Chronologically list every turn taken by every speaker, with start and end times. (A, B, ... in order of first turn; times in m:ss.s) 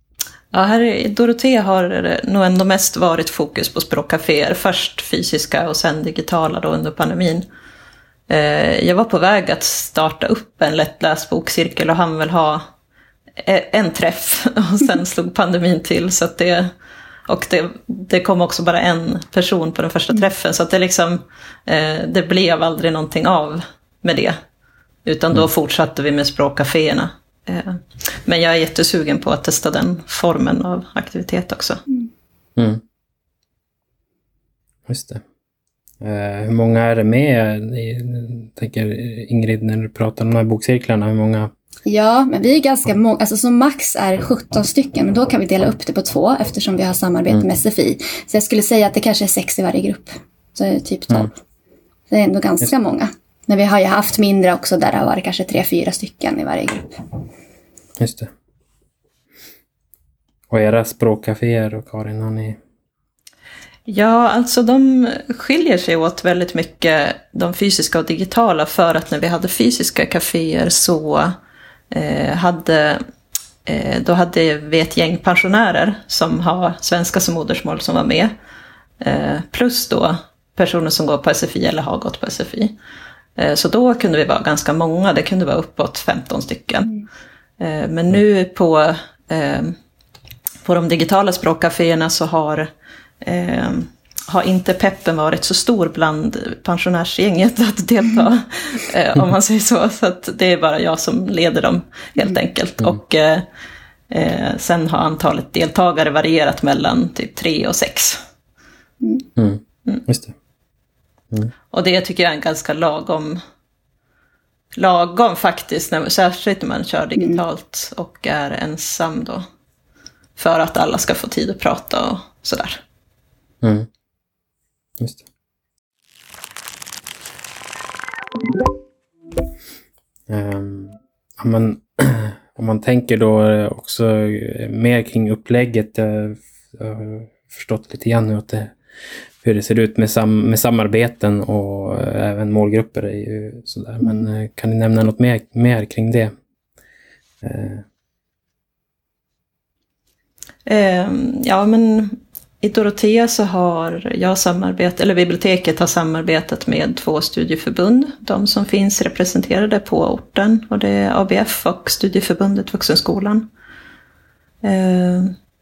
0:00.5-0:07.4 A
0:08.3-0:12.6 A
0:13.4-0:16.7 A
0:17.3-0:24.4 A
0:25.0-0:31.8 A
0:32.6-0:32.8 B
0:34.9-0:35.2 B
0:36.0-0:41.5 B
0:41.8-0:51.3 C
0:52.1-0:57.0 C
0:58.0-0:58.3 B
1:00.5-1:02.6 B
1:03.9-1:11.4 A
1:11.9-1:13.0 A
1:13.6-1:18.3 A
1:19.0-1:22.7 A
1:23.4-1:26.9 A
1:27.6-1:29.8 A
1:30.6-1:32.7 A
1:33.2-1:43.4 A
1:44.1-1:48.2 A
1:49.0-1:49.3 C
1:49.4-1:50.3 B
1:51.7-1:53.4 A
1:54.7-1:59.4 A
2:00.4-2:02.8 A
2:03.6-2:03.9 B
2:10.3-2:18.7 B
2:19.4-2:26.3 B
2:27.4-2:27.8 B
2:30.6-2:43.5 A
2:44.6-2:45.4 A